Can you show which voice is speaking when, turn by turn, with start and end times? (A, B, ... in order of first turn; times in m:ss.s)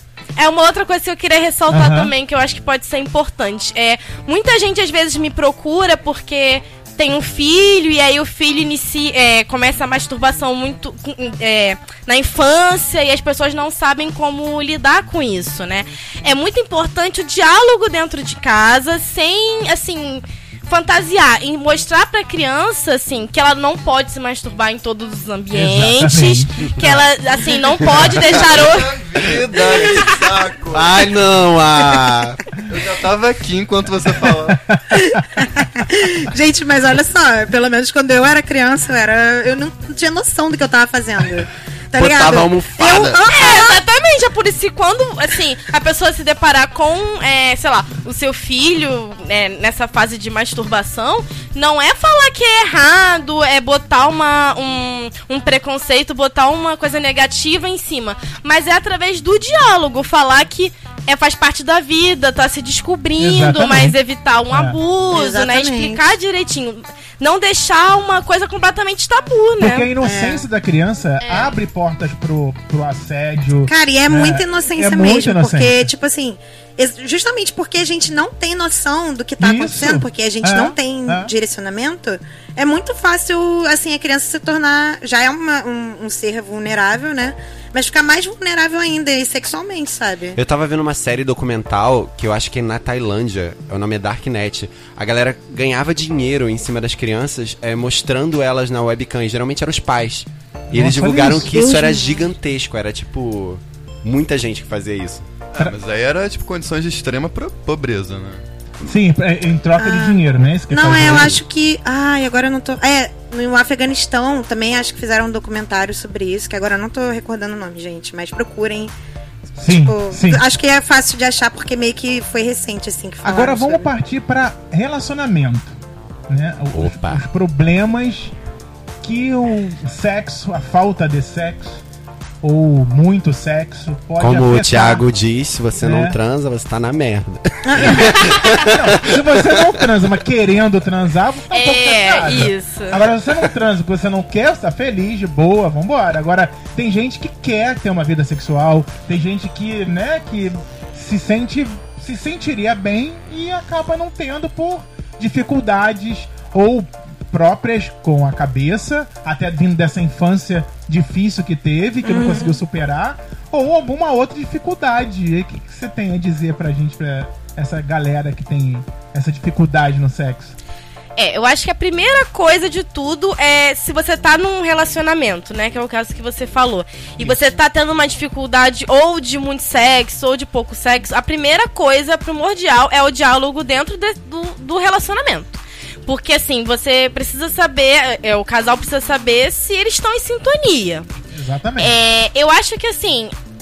0:00.4-0:28.9 A
0:01.7-0:02.1 B
0:25.5-0:26.7 B
0:27.8-0:31.1 C
0:27.9-0:28.2 D
0:30.7-0:32.4 D
0:32.7-0:34.6 C
0:34.5-0:35.2 B
0:35.0-0:43.8 E
0:42.0-0:43.2 D
0:43.3-1:09.9 A
1:03.2-1:04.0 B
1:04.5-1:04.8 B
1:05.1-1:06.1 E
1:09.6-1:15.9 B
1:10.0-1:10.4 E
1:11.2-1:11.6 A
1:13.7-1:30.4 E
1:19.4-1:21.3 B
1:30.4-1:45.3 D
1:40.7-1:41.6 B
1:41.5-1:42.3 E
1:45.5-1:48.4 C
1:48.8-1:51.4 B
1:49.8-1:58.9 E
1:51.0-1:51.4 D
1:59.6-2:00.4 B
1:59.7-2:03.9 E
2:03.2-2:05.8 B
2:06.3-2:08.4 B
2:06.7-2:07.2 D
2:09.0-2:11.8 B
2:12.4-2:15.0 B
2:14.2-2:19.7 D
2:15.8-2:16.2 B
2:17.6-2:18.4 E
2:17.8-2:50.6 B
2:21.5-2:23.0 A
2:42.0-2:42.6 E
2:51.2-3:11.1 A
3:11.3-3:12.0 B
3:11.8-3:13.3 A